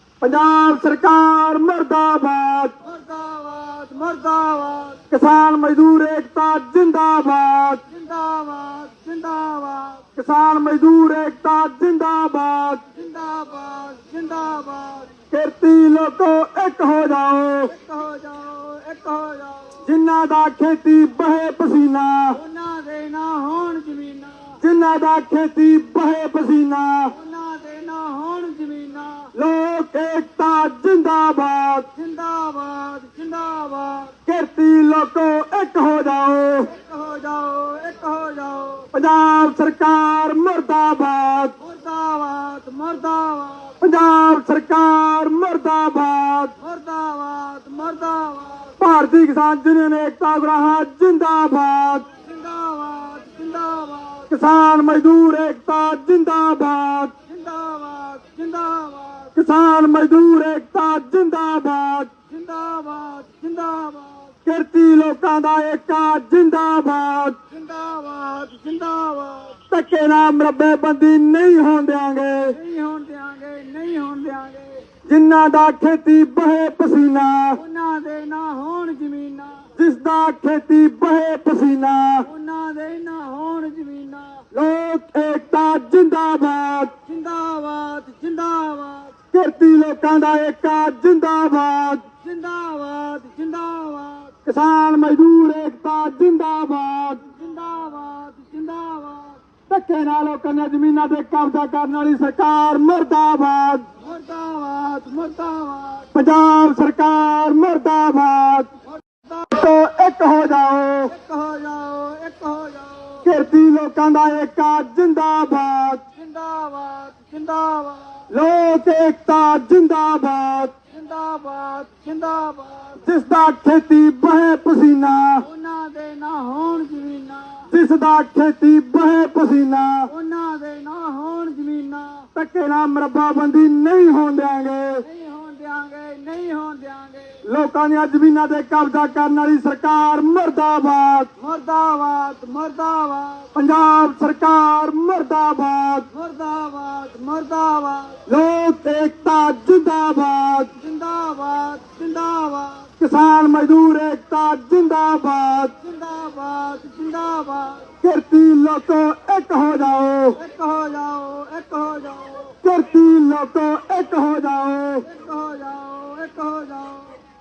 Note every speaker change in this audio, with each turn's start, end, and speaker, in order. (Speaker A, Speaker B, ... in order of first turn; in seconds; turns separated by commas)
Speaker A: 0.2-2.7, Speaker B: 2.8-5.0, Speaker A: 5.1-7.8, Speaker B: 7.9-10.1, Speaker A: 10.2-12.8, Speaker B: 12.9-15.2, Speaker A: 15.3-17.7, Speaker B: 17.7-19.9, Speaker A: 19.8-22.4, Speaker B: 22.3-24.6, Speaker A: 24.6-27.1, Speaker B: 27.1-29.3, Speaker A: 29.3-31.9, Speaker B: 31.9-34.2, Speaker A: 34.2-36.7, Speaker B: 36.6-38.9, Speaker A: 38.9-41.5, Speaker B: 41.6-43.8, Speaker A: 43.8-46.5, Speaker B: 46.6-48.7, Speaker A: 48.8-52.1, Speaker B: 52.1-54.3, Speaker A: 54.3-57.1, Speaker B: 57.2-59.3, Speaker A: 59.3-62.1, Speaker B: 62.2-64.3, Speaker A: 64.4-67.4, Speaker B: 67.5-69.6, Speaker A: 69.7-72.5, Speaker B: 72.5-74.9, Speaker A: 75.0-77.6, Speaker B: 77.5-79.7, Speaker A: 79.8-82.2, Speaker B: 82.2-84.5, Speaker A: 84.5-86.9, Speaker B: 87.0-89.1, Speaker A: 89.3-92.0, Speaker B: 92.2-94.3, Speaker A: 94.5-97.2, Speaker B: 97.3-99.4, Speaker A: 99.7-103.8, Speaker B: 104.0-106.1, Speaker A: 106.1-108.7, Speaker B: 108.9-109.5, Speaker A: 109.5-111.1, Speaker B: 111.1-113.3, Speaker A: 113.2-116.0, Speaker B: 116.1-118.3, Speaker A: 118.3-120.7, Speaker B: 120.9-123.0, Speaker A: 123.0-125.4, Speaker B: 125.4-127.7, Speaker A: 127.7-130.1, Speaker B: 130.1-132.3, Speaker A: 132.3-135.0, Speaker B: 135.0-137.4, Speaker A: 137.4-141.3, Speaker B: 141.3-143.5, Speaker A: 143.5-146.1, Speaker B: 146.1-148.2, Speaker A: 148.3-150.7, Speaker B: 150.8-152.9, Speaker A: 153.0-155.7, Speaker B: 155.8-157.9, Speaker A: 158.0-160.4, Speaker B: 160.3-162.6, Speaker A: 162.6-165.1, Speaker B: 165.0-167.2